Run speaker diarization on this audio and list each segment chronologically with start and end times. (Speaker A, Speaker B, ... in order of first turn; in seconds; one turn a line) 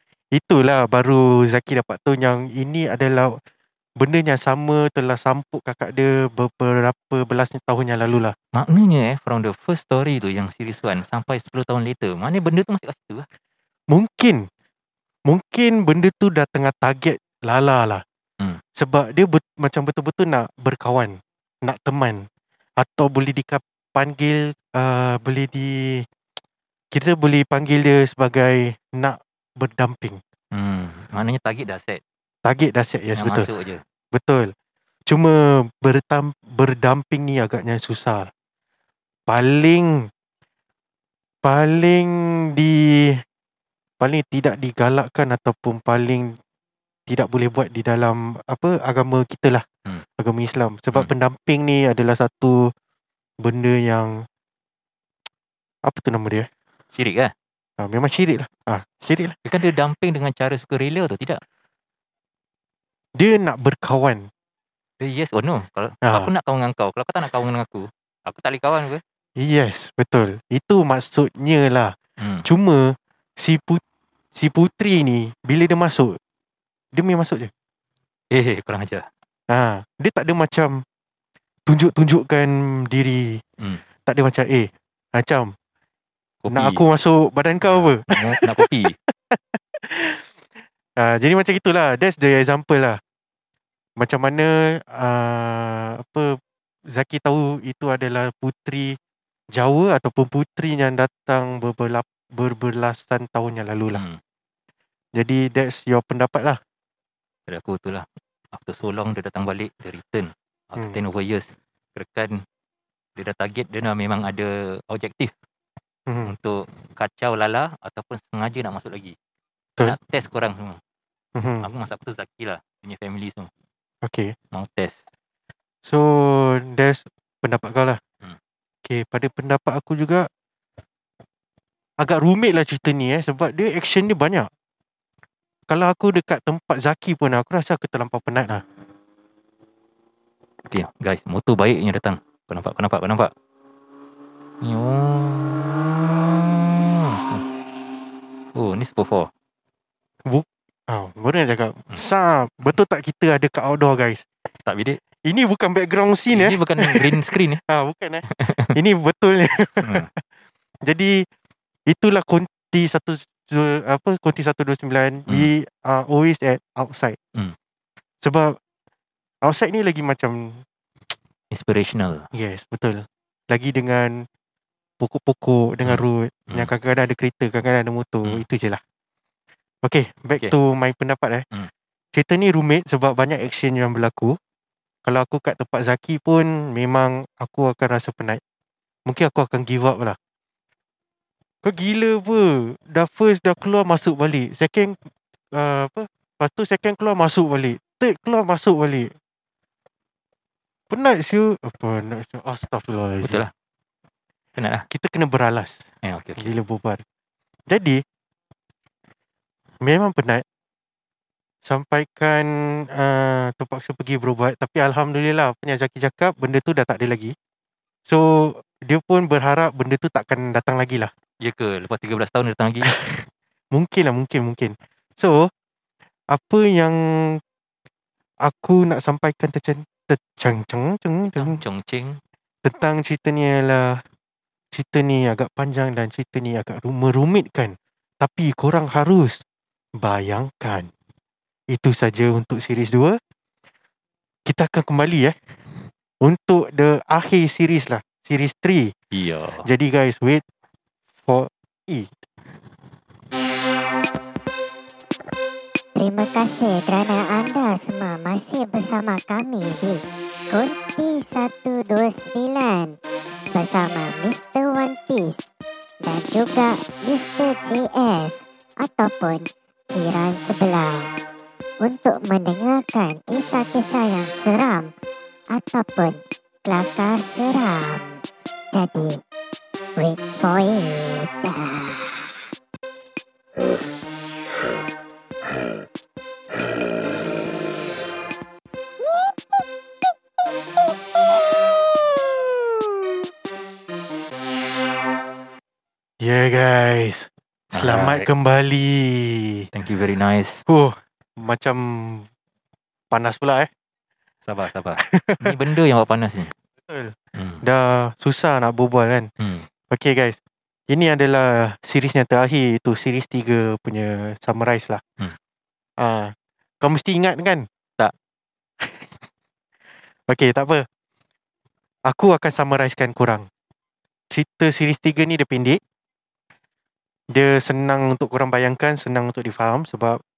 Speaker A: 0.3-3.4
Speaker A: 4.0-8.3
Speaker B: 8.5-13.2
Speaker A: 13.9-14.4
Speaker A: 15.3-18.0
Speaker A: 18.8-22.3
Speaker A: 22.8-26.1
Speaker A: 26.9-30.2
Speaker B: 30.5-32.0
Speaker A: 32.4-33.5
Speaker B: 33.1-33.8
Speaker A: 34.1-34.5
Speaker A: 35.1-38.3
Speaker A: 39.3-40.1
Speaker A: 41.4-43.2
Speaker A: 44.0-46.4
Speaker A: 47.1-49.6
Speaker A: 50.2-52.7
Speaker A: 53.4-54.2
Speaker A: 55.8-56.5
Speaker B: 56.9-57.3
Speaker A: 57.8-59.4
Speaker B: 59.4-61.4
Speaker A: 63.2-64.3
Speaker B: 65.0-69.0
Speaker A: 66.0-66.3
Speaker A: 69.4-73.8
Speaker B: 72.2-72.5
Speaker A: 74.3-76.2
Speaker A: 76.9-77.5
Speaker B: 78.3-79.1
Speaker A: 79.5-80.8
Speaker A: 81.7-83.4
Speaker A: 84.0-85.5
Speaker B: 86.4-86.8
Speaker A: 86.5-90.3
Speaker B: 87.6-89.0
Speaker A: 91.0-93.0
Speaker A: 94.0-96.4
Speaker A: 96.9-99.0
Speaker A: 99.5-104.0
Speaker B: 103.9-104.2
Speaker A: 105.1-106.6
Speaker B: 107.5-112.4
Speaker B: 113.2-115.3
Speaker A: 116.1-116.3
Speaker B: 116.2-119.1
Speaker B: 119.8-120.8
Speaker A: 121.3-121.7
Speaker B: 121.6-123.5
Speaker A: 124.0-124.3
Speaker B: 124.5-125.0
Speaker A: 125.8-128.0
Speaker A: 128.8-130.3
Speaker A: 132.0-134.5
Speaker A: 135.7-138.6
Speaker B: 140.7-143.3
Speaker B: 144.6-147.4
Speaker B: 148.5-149.3
Speaker A: 150.2-154.2
Speaker B: 154.7-155.0
Speaker A: 155.2-160.1
Speaker B: 156.3-157.6
Speaker B: 158.3-158.7
Speaker B: 159.8-160.1
Speaker A: 160.8-161.2
Speaker A: 161.9-167.2
Speaker A: 168.2-168.6
Speaker A: 169.4-170.6
Speaker B: 171.5-172.3
Speaker A: 172.3-174.3
Speaker A: 175.0-178.8
Speaker B: 175.8-176.7
Speaker A: 179.8-181.4
Speaker A: 182.1-184.4
Speaker A: 185.1-188.4
Speaker A: 189.1-190.2
Speaker A: 191.6-195.0
Speaker A: 195.5-199.1
Speaker A: 200.9-203.4
Speaker B: 203.2-203.5
Speaker B: 204.6-204.9
Speaker A: 204.9-205.8
Speaker B: 206.0-206.6
Speaker A: 206.4-207.0
Speaker A: 207.7-208.0
Speaker A: 209.8-210.4
Speaker A: 211.6-217.3
Speaker A: 218.1-221.1
Speaker B: 221.4-222.9
Speaker A: 222.9-225.5
Speaker A: 226.3-227.4
Speaker A: 228.4-231.6
Speaker B: 231.3-232.2
Speaker A: 232.6-234.0
Speaker A: 234.7-239.4
Speaker A: 240.0-240.9
Speaker A: 241.7-243.2
Speaker A: 244.5-245.3
Speaker A: 246.2-248.9
Speaker B: 249.1-249.6
Speaker A: 249.6-250.4
Speaker A: 251.2-252.2
Speaker C: 255.9-262.9
Speaker C: 263.5-265.5
Speaker C: 266.0-271.1
Speaker C: 271.8-274.9
Speaker C: 275.5-278.2
Speaker C: 278.7-279.2
Speaker C: 280.0-282.3
Speaker A: 296.2-299.7
Speaker B: 297.7-298.3
Speaker B: 299.7-300.6
Speaker A: 300.6-302.3
Speaker A: 303.1-303.7
Speaker B: 304.4-306.5
Speaker A: 305.0-305.5
Speaker A: 306.9-309.3
Speaker B: 307.3-307.6
Speaker B: 309.4-309.6
Speaker A: 309.9-310.4
Speaker A: 310.9-315.0
Speaker A: 316.0-317.6
Speaker A: 318.8-319.1
Speaker A: 320.3-320.9
Speaker A: 322.1-323.5
Speaker A: 324.3-325.8
Speaker A: 327.3-330.2